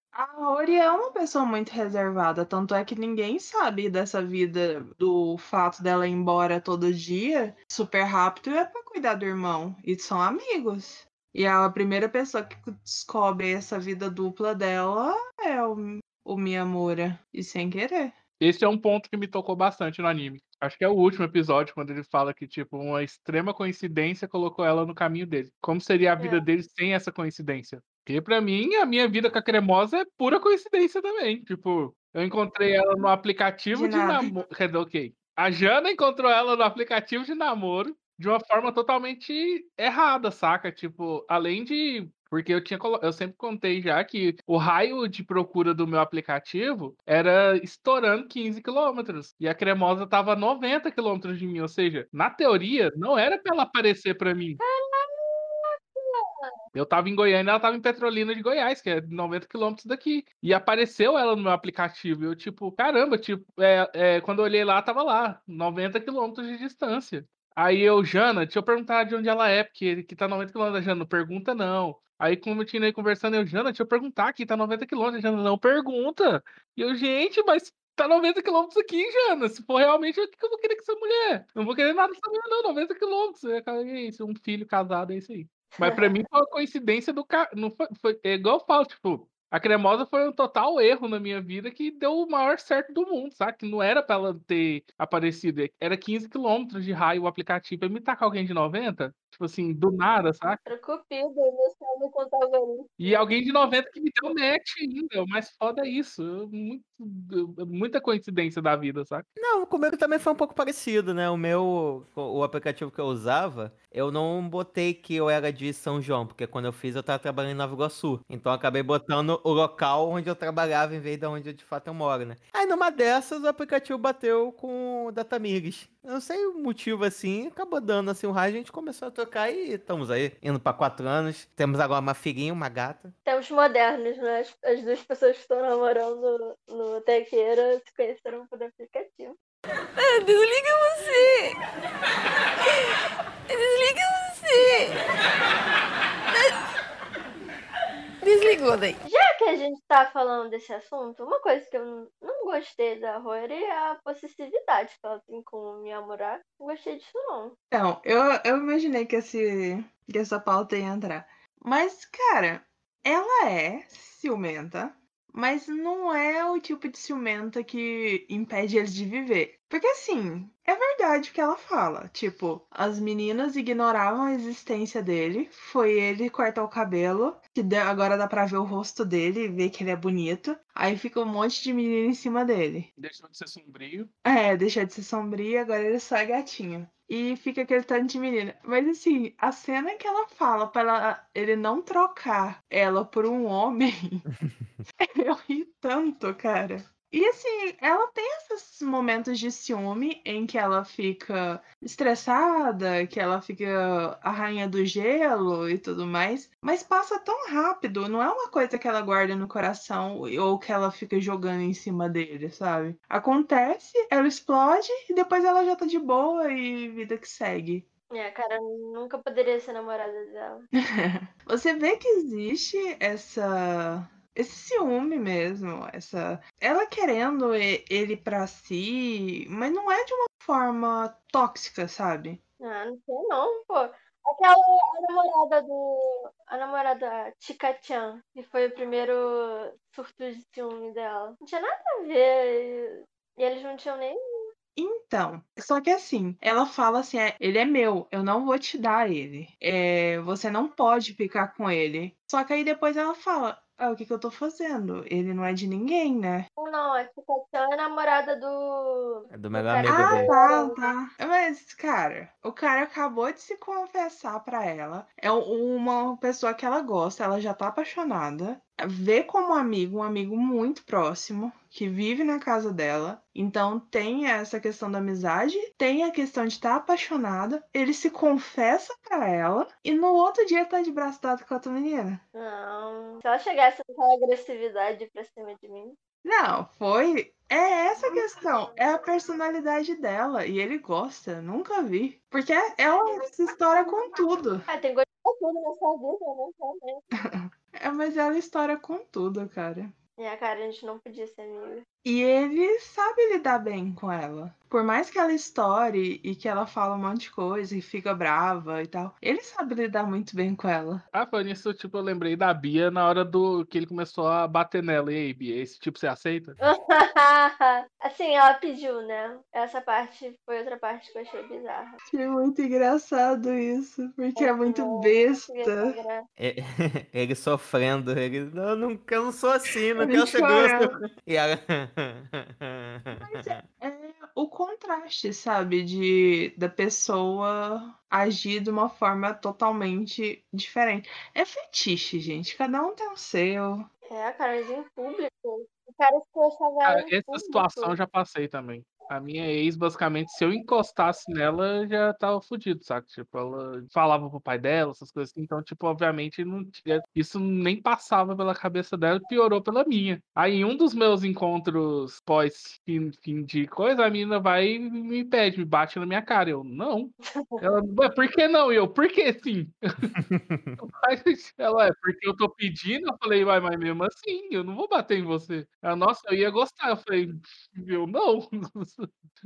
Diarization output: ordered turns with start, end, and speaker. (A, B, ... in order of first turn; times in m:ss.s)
0:00.1-0:18.2 A
0:18.4-0:54.6 B
0:26.2-0:26.4 C
0:33.7-0:34.3 A
0:54.6-0:56.5 C
0:56.7-1:40.6 B
1:25.8-1:26.1 C
1:40.7-1:43.2 C
1:43.0-1:49.3 B
1:49.4-2:13.1 D
2:13.3-2:19.4 C
2:20.0-2:21.6 E
2:23.5-2:25.0 E
2:28.2-2:29.0 E
2:29.0-2:37.6 C
2:37.7-3:02.9 A
3:03.0-3:04.1 B
3:04.2-3:14.3 A
3:14.4-3:14.8 D
3:15.0-3:37.9 A
3:38.1-3:40.7 C
3:40.9-3:52.4 A
3:52.6-4:04.2 C
4:04.8-4:16.5 A
4:16.6-4:20.9 C
4:19.3-4:20.3 D
4:19.8-4:42.2 A
4:42.4-4:46.0 C
4:46.2-4:54.7 A
4:54.7-4:57.0 C
4:57.2-4:59.9 A
5:00.2-5:01.8 C
5:02.0-5:11.0 A
5:11.1-5:16.6 B
5:16.6-5:22.0 C
5:22.1-5:26.0 A
5:24.4-5:26.2 C
5:26.4-5:33.6 D
5:30.0-5:30.9 A
5:33.2-5:43.9 A
5:44.1-5:48.0 C
5:46.8-6:10.2 B
6:07.3-6:07.6 C
6:10.2-6:10.8 D
6:10.8-6:19.1 B